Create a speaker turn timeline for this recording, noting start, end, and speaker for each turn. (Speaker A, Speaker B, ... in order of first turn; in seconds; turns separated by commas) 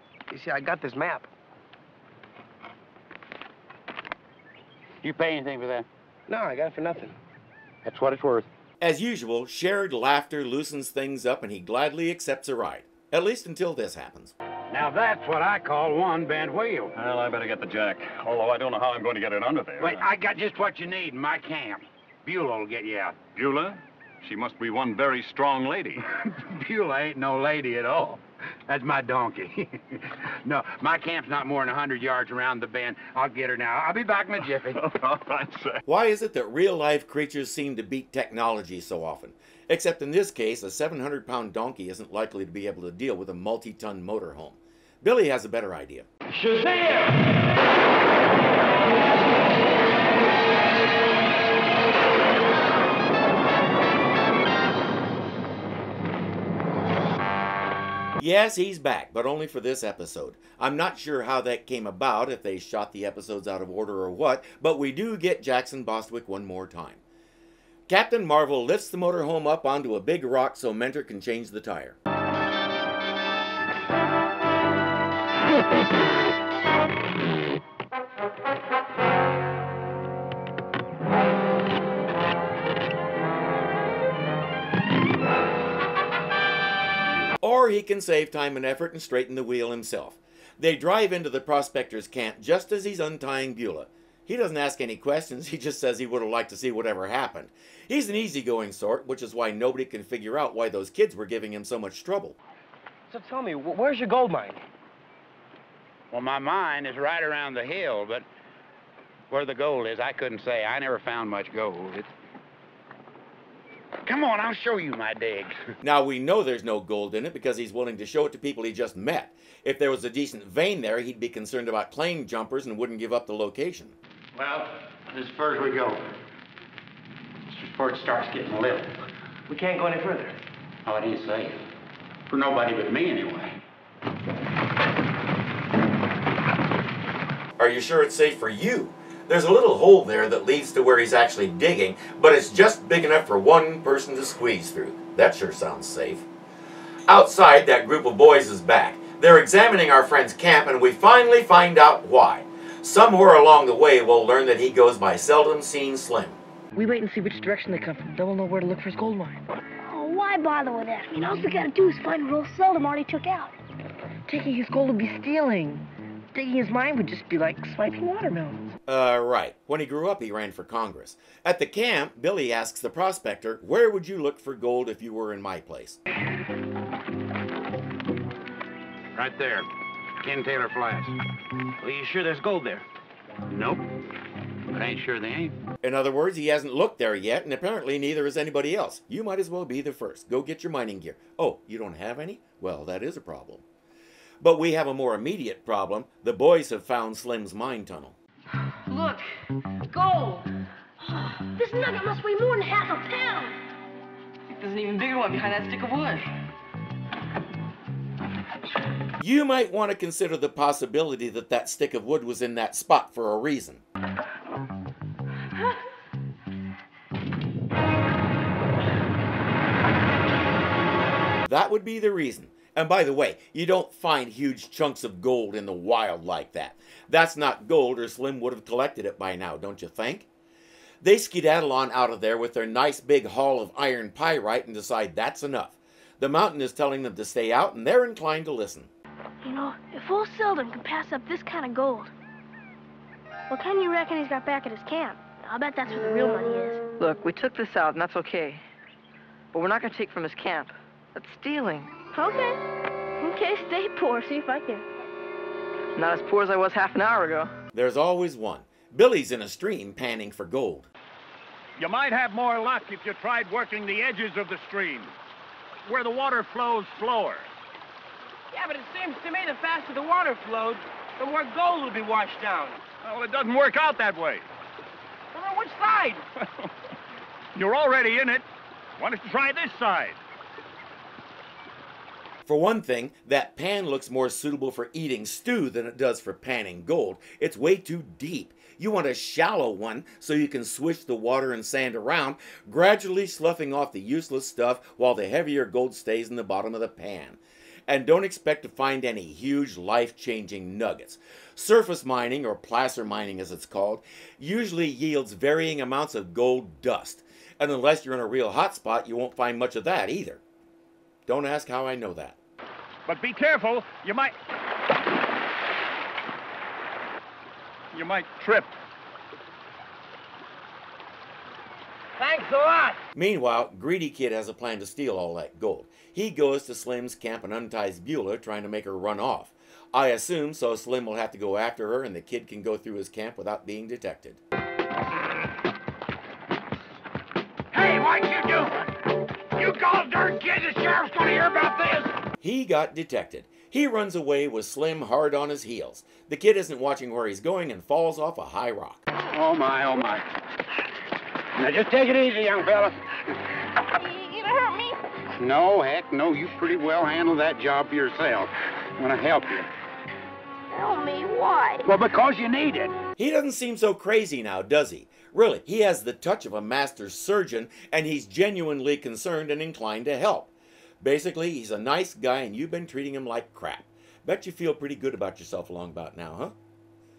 Speaker A: 0.3-1.3, Speaker B: 5.0-5.9, Speaker A: 6.3-7.2, Speaker B: 7.8-8.5, Speaker C: 8.8-14.3, Speaker B: 14.7-16.9, Speaker D: 16.9-20.0, Speaker B: 19.8-23.2, Speaker D: 23.3-26.0, Speaker B: 26.3-34.8, Speaker D: 34.8-35.8, Speaker C: 35.9-46.1, Speaker C: 58.2-67.0, Speaker C: 67.9-72.0, Speaker C: 87.4-102.4, Speaker A: 103.1-104.6, Speaker B: 106.1-108.2, Speaker B: 109.3-112.1, Speaker B: 114.0-115.6, Speaker C: 115.8-124.0, Speaker B: 124.3-126.0, Speaker B: 127.5-129.1, Speaker A: 129.5-130.4, Speaker B: 130.8-131.6, Speaker B: 132.3-133.6, Speaker C: 137.6-146.2, Speaker C: 147.1-156.4, Speaker E: 156.8-159.4, Speaker F: 159.9-163.5, Speaker E: 164.3-168.7, Speaker C: 168.9-176.0, Speaker B: 179.1-179.7, Speaker B: 180.2-181.2, Speaker B: 183.5-183.9, Speaker B: 184.7-185.6, Speaker C: 185.8-193.6, Speaker C: 194.4-198.2, Speaker E: 198.9-199.3, Speaker E: 199.9-200.5, Speaker F: 201.5-203.6, Speaker E: 204.6-206.3, Speaker C: 209.2-213.8, Speaker C: 221.4-230.3, Speaker C: 231.0-238.9, Speaker F: 239.4-242.1, Speaker F: 243.5-246.8, Speaker E: 247.0-248.6, Speaker E: 249.5-251.9, Speaker F: 252.1-252.6, Speaker F: 253.2-254.8, Speaker E: 255.9-257.5, Speaker C: 257.7-260.9, Speaker G: 261.8-265.1, Speaker G: 265.9-267.4, Speaker G: 273.0-274.4, Speaker G: 277.5-278.4, Speaker G: 279.0-280.2, Speaker C: 282.4-310.4, Speaker C: 311.3-312.4, Speaker G: 313.1-314.3, Speaker G: 317.9-318.7, Speaker C: 323.1-334.4, Speaker B: 337.7-342.1, Speaker C: 342.4-349.0, Speaker B: 349.3-350.2, Speaker B: 351.6-353.3, Speaker F: 354.0-354.9, Speaker B: 355.4-359.7, Speaker F: 360.7-361.9, Speaker B: 361.8-362.9, Speaker C: 363.2-376.5